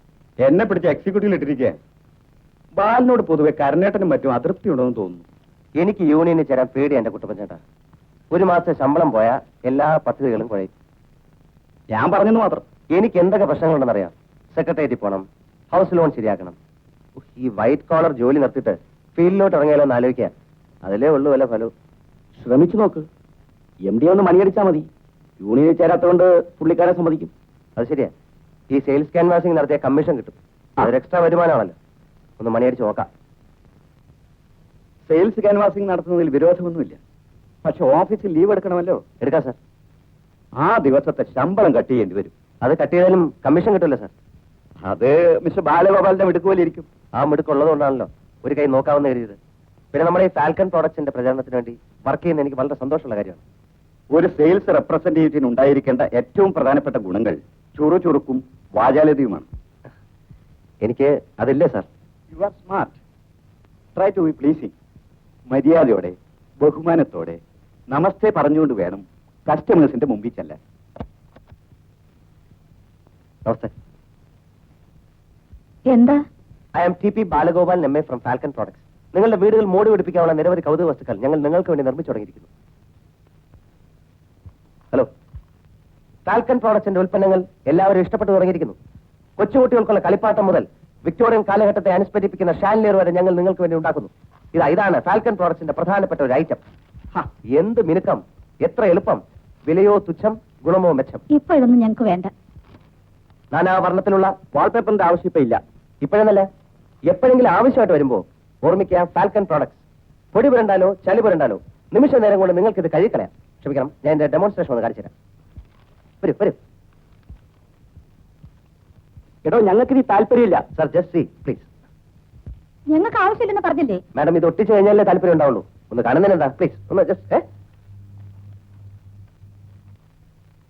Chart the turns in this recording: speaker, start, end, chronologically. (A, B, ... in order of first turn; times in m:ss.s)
0:00.4-0:01.8 A
0:02.7-0:05.2 A
0:05.8-0:07.6 B
0:08.3-0:10.7 B
0:11.9-0:12.6 A
0:12.9-0:16.6 B
0:17.2-0:20.3 B
0:20.8-0:21.7 B
0:22.4-0:23.1 A
0:23.8-0:24.9 A
0:25.4-0:27.3 A
0:27.8-0:28.1 B
0:28.7-0:31.7 B
0:32.4-0:33.1 B
0:35.1-0:37.0 A
0:37.6-0:39.0 A
0:39.2-0:39.6 B
0:40.6-0:42.3 A
0:42.6-0:44.1 B
0:44.8-0:46.9 A
0:47.1-0:49.4 B
0:49.9-0:53.4 B
0:54.1-0:59.5 A
1:00.8-1:01.9 B
1:02.3-1:03.0 A
1:03.9-1:04.7 A
1:05.5-1:10.6 A
1:13.4-1:13.7 B
1:15.8-1:16.2 C
1:16.8-1:22.5 B
1:26.2-1:28.8 B
1:29.4-1:36.6 B
1:37.5-1:41.2 B
1:41.3-1:42.3 C
1:43.5-1:44.3 B
1:44.5-1:45.6 A
1:46.0-1:46.5 B
1:47.0-1:55.1 B
1:56.2-1:56.6 B
1:59.4-2:00.6 A
2:00.7-2:01.7 B
2:02.9-2:04.0 C
2:04.1-2:07.4 B